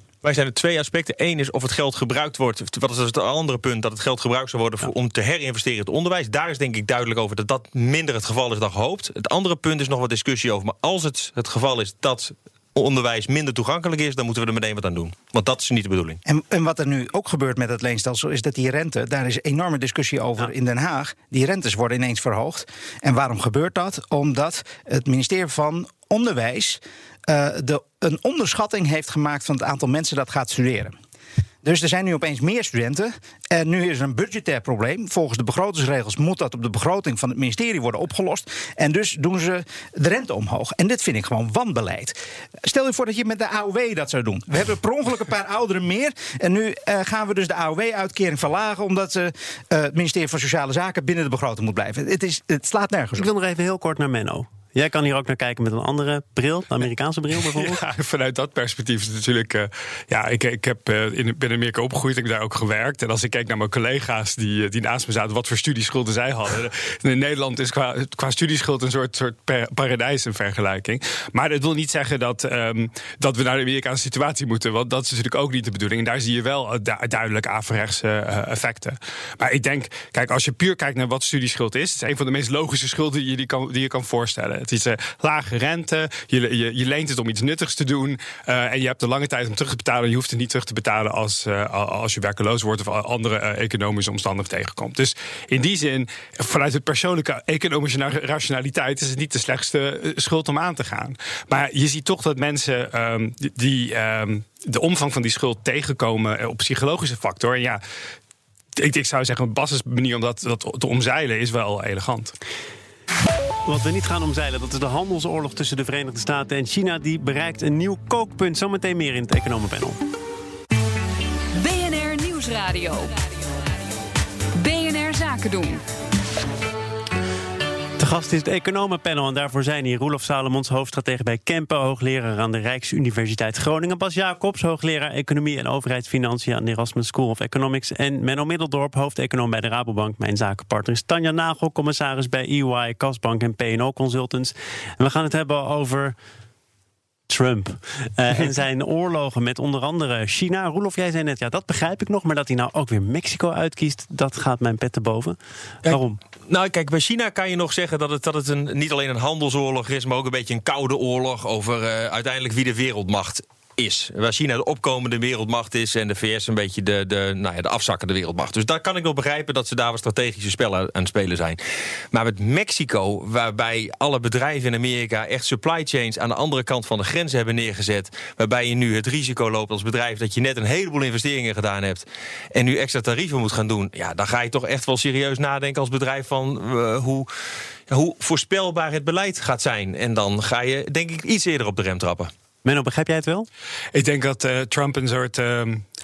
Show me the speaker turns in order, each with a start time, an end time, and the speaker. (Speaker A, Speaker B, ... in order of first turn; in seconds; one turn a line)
Speaker A: 0.2-16.2
Speaker B: 16.2-30.9
Speaker B: 31.6-53.3
Speaker C: 53.2-57.8
Speaker D: 57.5-107.8
Speaker D: 108.8-112.3
Speaker C: 113.7-120.0
Speaker E: 121.5-123.1
Speaker E: 124.5-125.8
Speaker C: 128.0-146.1
Speaker C: 147.3-156.2
Speaker A: 155.8-171.6
Speaker A: 172.1-187.3
Speaker A: 187.9-192.3
Speaker C: 192.6-193.5
Speaker D: 193.9-195.8